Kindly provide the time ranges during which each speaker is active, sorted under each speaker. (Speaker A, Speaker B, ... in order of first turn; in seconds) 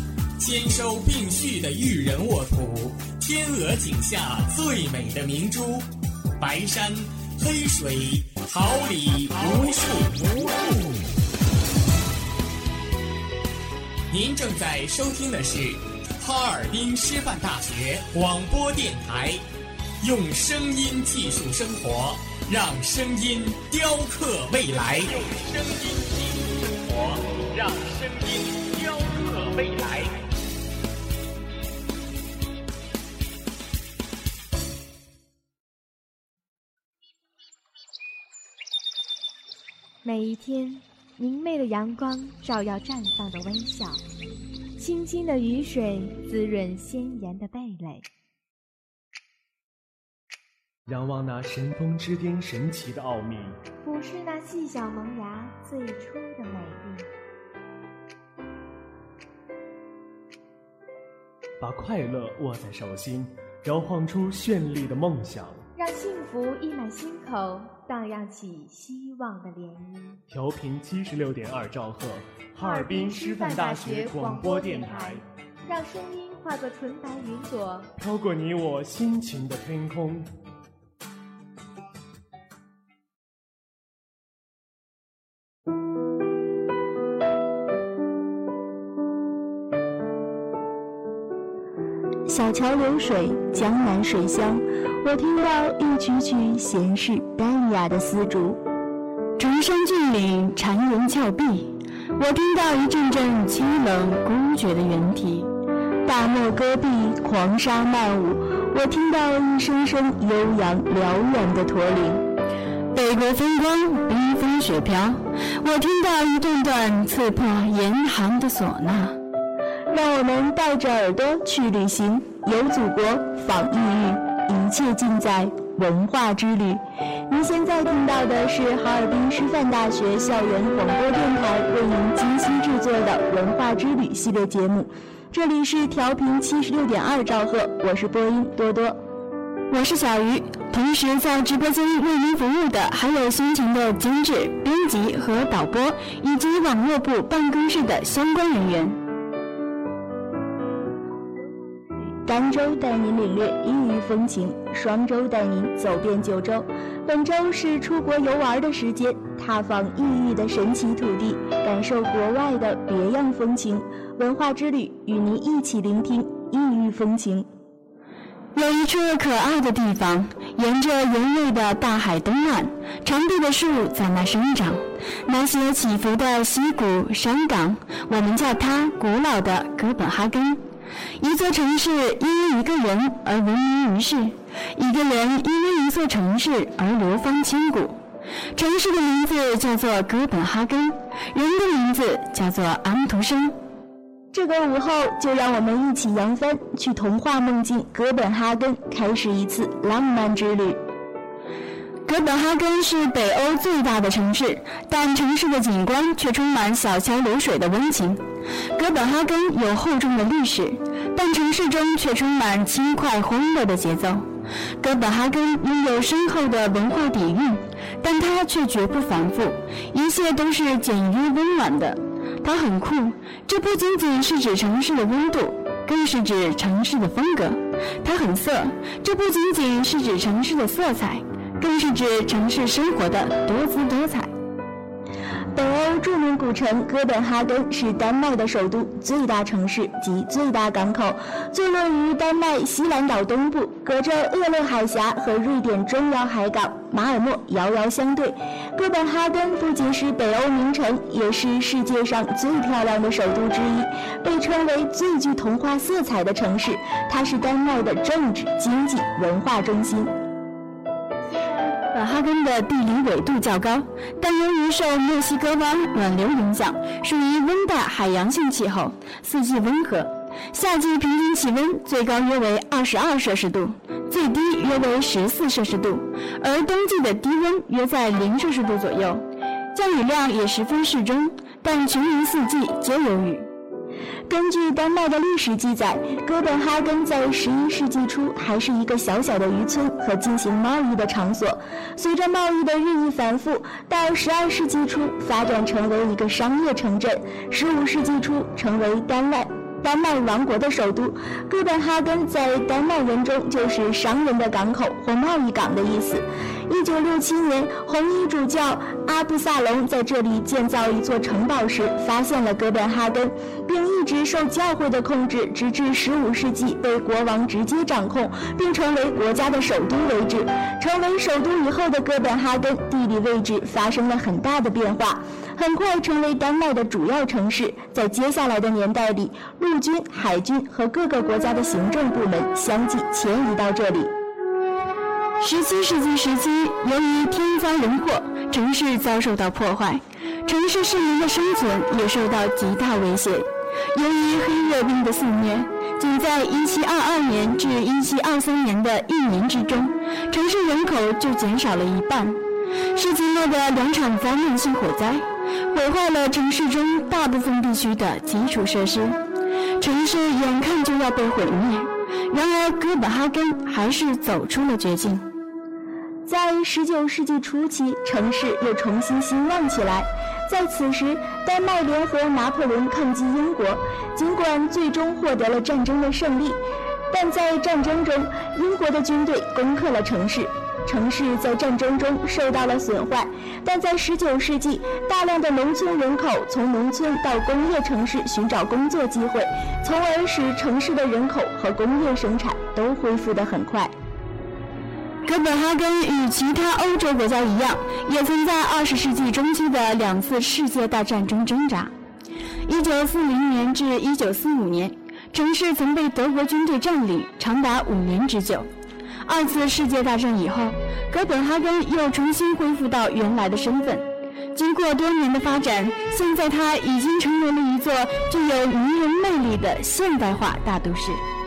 Speaker A: 0.4-5.9, 6.4-10.9, 14.1-19.4, 20.0-30.2
Speaker B: 40.0-44.0, 44.8-48.1, 53.8-57.1, 65.8-70.2, 72.6-77.9
Speaker C: 50.9-53.6, 61.6-65.6, 70.3-75.2, 78.0-80.3
Speaker D: 92.3-98.6, 106.1-112.2, 119.9-139.0, 152.3-167.5, 194.3-200.8, 235.6-260.1, 284.3-334.1, 366.3-376.6, 377.1-393.9
Speaker E: 99.4-105.5, 112.9-119.2, 139.7-149.0, 168.6-180.6, 181.2-188.0, 188.6-193.6, 202.1-208.2, 208.8-214.3, 214.8-234.3, 261.9-283.5, 335.4-352.4, 352.9-359.2, 359.8-365.3, 395.3-401.9, 402.7-408.7, 409.2-421.2